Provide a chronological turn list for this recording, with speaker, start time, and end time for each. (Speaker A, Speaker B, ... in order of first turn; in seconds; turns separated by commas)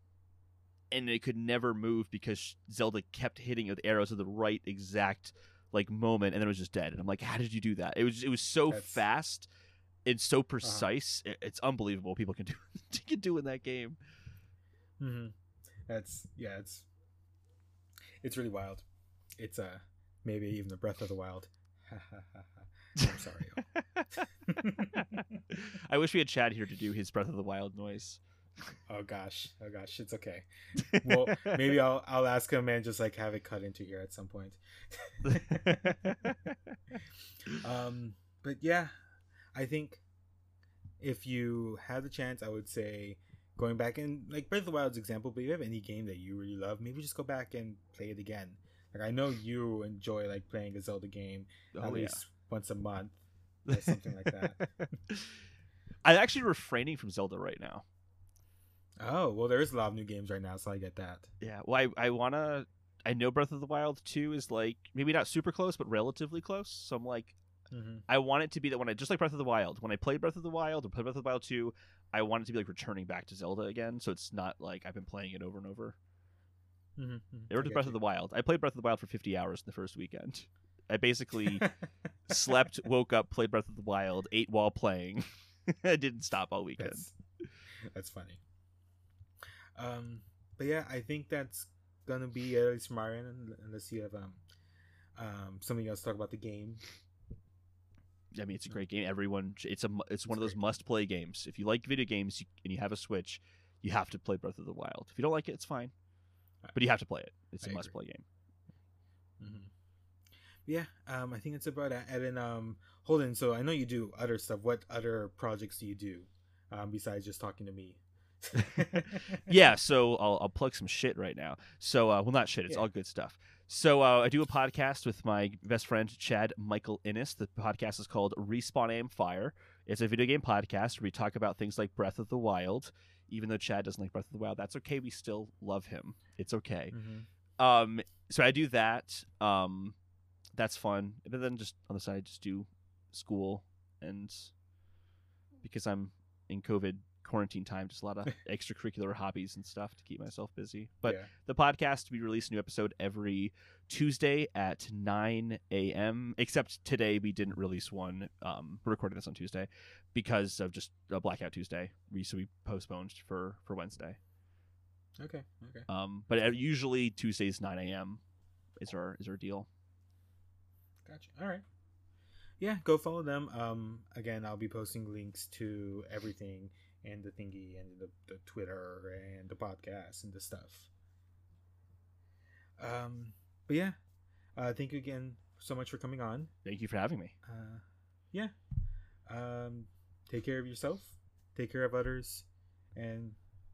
Speaker A: 0.9-9.5, Speaker B: 8.7-9.0, Speaker A: 10.1-14.0, Speaker B: 10.6-10.9, Speaker B: 15.0-15.3, Speaker B: 15.9-16.9, Speaker B: 18.2-18.9, Speaker B: 19.4-23.6, Speaker A: 23.7-24.1, Speaker B: 24.4-25.4, Speaker A: 24.9-28.2, Speaker B: 28.9-36.1, Speaker A: 30.8-31.6, Speaker A: 35.2-36.8, Speaker B: 37.5-38.9, Speaker B: 39.5-40.0, Speaker B: 41.0-53.2, Speaker A: 51.7-52.2, Speaker A: 53.7-55.4, Speaker B: 53.7-54.9, Speaker A: 56.0-57.9, Speaker B: 59.0-61.3, Speaker A: 61.4-67.4, Speaker B: 67.7-68.1, Speaker A: 68.1-76.0, Speaker B: 77.0-78.0, Speaker A: 77.5-81.7, Speaker A: 82.3-87.1, Speaker B: 86.8-87.1, Speaker B: 87.9-88.4, Speaker B: 89.8-94.4, Speaker B: 95.2-96.9, Speaker A: 98.3-105.9, Speaker B: 100.3-100.6, Speaker A: 106.7-108.2, Speaker B: 107.6-107.9, Speaker B: 109.4-109.7, Speaker B: 110.7-119.5, Speaker A: 118.5-137.0, Speaker B: 136.9-137.3, Speaker A: 137.6-140.0, Speaker A: 140.6-144.5, Speaker A: 145.6-164.2, Speaker B: 151.1-151.3, Speaker B: 165.2-165.9, Speaker A: 165.9-168.2, Speaker A: 168.8-169.7, Speaker B: 171.1-171.7, Speaker B: 172.6-180.9, Speaker B: 182.8-184.0, Speaker B: 184.6-186.5, Speaker A: 186.6-187.3, Speaker B: 187.4-188.5, Speaker B: 189.3-193.4